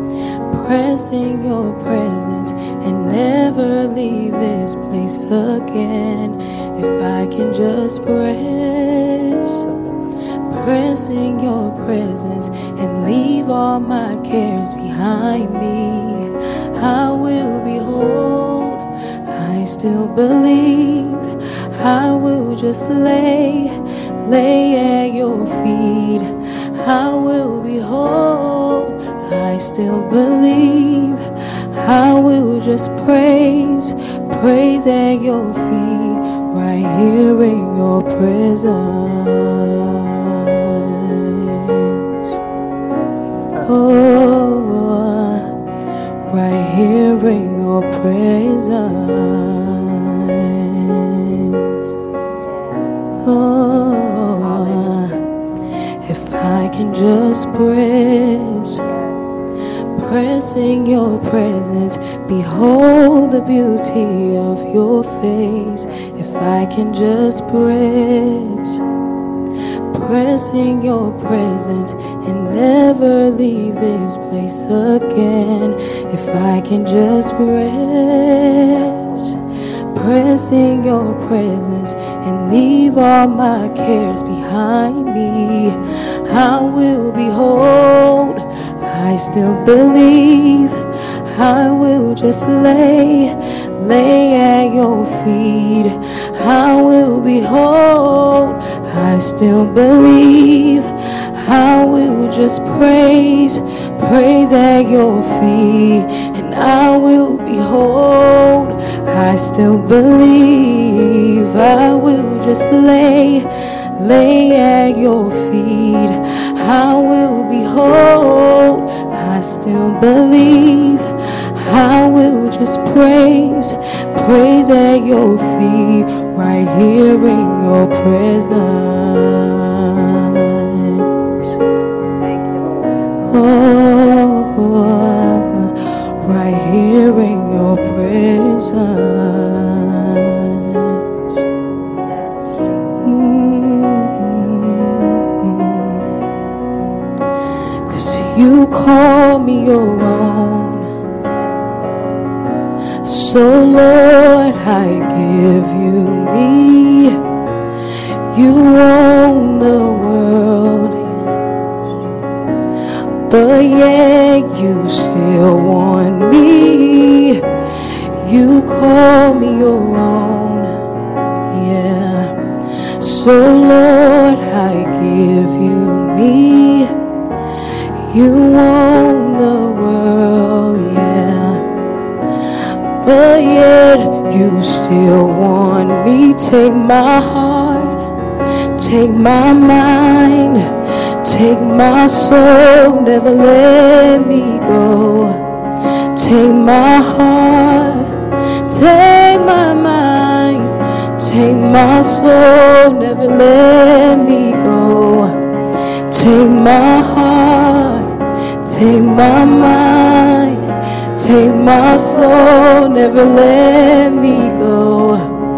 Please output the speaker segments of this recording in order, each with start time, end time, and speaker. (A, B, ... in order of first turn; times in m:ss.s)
0:00.5-0:09.7 A
0:10.5-0:42.3 A
0:43.6-0:45.5 A
0:46.3-0:51.9 A
0:52.4-0:53.2 B
0:53.2-0:55.2 A
0:54.4-0:55.3 B
0:55.9-0:58.8 A
0:58.8-0:59.4 B
0:59.9-1:08.8 A
1:05.9-1:06.2 B
1:09.9-2:11.6 A
1:18.7-1:19.3 B
2:12.2-2:13.1 B
2:13.2-2:21.4 A
2:22.0-2:23.2 B
2:23.0-2:26.1 A
2:27.8-2:30.9 A
2:31.2-2:32.2 B
2:33.0-2:37.2 A
2:38.3-2:41.1 A
2:41.8-2:42.3 B
2:43.3-2:50.8 A
2:51.0-2:51.5 B
2:51.5-2:52.4 A
2:52.9-2:56.9 A
2:58.0-3:01.6 A
3:03.0-3:08.0 A
3:08.8-3:15.5 A
3:16.1-3:25.4 A
3:26.1-3:35.3 A